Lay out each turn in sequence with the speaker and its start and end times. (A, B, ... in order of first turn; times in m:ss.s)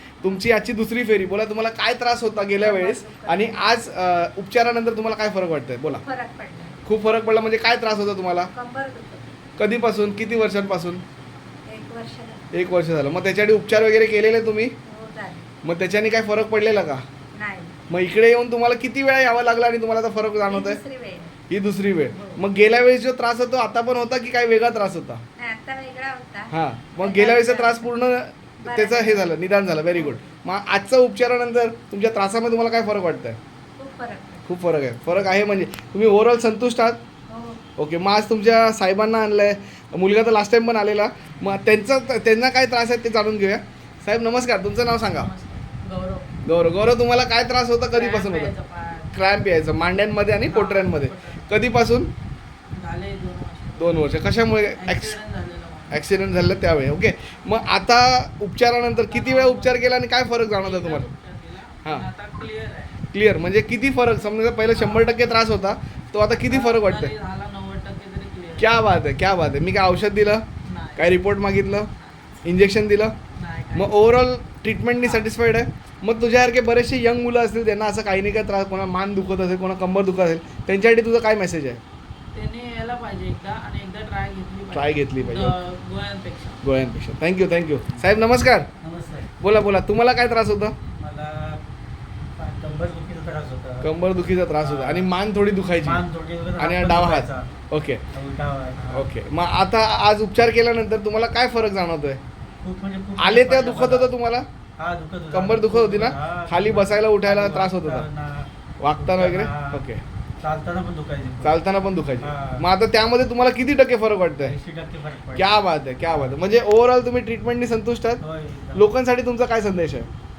0:00.2-0:06.0 A
0:02.4-0:03.6 B
0:05.9-0:06.8 B
0:06.8-0:08.5 A
0:08.5-0:09.4 B
0:09.6-0:11.0 A
0:11.7-0:12.5 B
0:12.5-0:14.7 A
0:14.8-0:15.5 B
0:15.6-0:17.0 A
0:17.3-0:17.8 B
0:17.9-0:20.8 A
0:20.4-0:21.4 B
0:21.5-0:25.2 A
0:22.1-0:22.4 B
0:25.4-0:28.0 B
0:26.5-0:33.4 A
0:28.6-0:30.4 B
0:33.8-0:34.5 B
0:34.4-0:37.0 A
0:37.3-0:37.6 B
0:37.8-0:45.3 A
0:44.9-0:46.3 C
0:46.4-0:48.5 A
0:47.9-0:49.1 C
0:49.1-0:52.1 A
0:50.3-0:51.9 C
0:52.7-0:56.2 C
0:53.8-0:55.2 A
0:55.9-1:01.1 A
0:58.9-0:59.9 C
1:00.6-1:03.0 C
1:03.1-1:07.1 A
1:04.7-1:05.4 C
1:06.3-1:08.8 C
1:08.6-1:10.4 A
1:10.6-1:11.2 C
1:11.0-1:11.9 A
1:11.9-1:12.4 C
1:12.4-1:13.1 A
1:13.3-1:14.4 C
1:13.7-1:21.8 A
1:15.0-1:15.3 C
1:22.3-1:26.6 C
1:24.7-1:25.5 A
1:26.6-1:28.7 A
1:28.8-1:29.3 D
1:29.4-1:30.7 A
1:30.9-1:31.6 D
1:32.4-1:33.9 D
1:33.8-1:36.0 A
1:34.6-1:35.1 D
1:35.8-1:37.5 D
1:36.6-1:38.0 A
1:38.1-1:39.1 D
1:38.9-1:42.2 A
1:42.6-1:44.1 D
1:43.2-1:44.4 A
1:44.8-1:49.8 D
1:45.3-1:48.0 A
1:48.8-1:50.0 A
1:50.4-1:52.6 D
1:51.4-1:54.5 A
1:54.4-1:55.6 D
1:55.3-1:58.2 A
1:56.1-1:56.4 D
1:58.2-1:58.8 D
1:58.7-2:00.1 A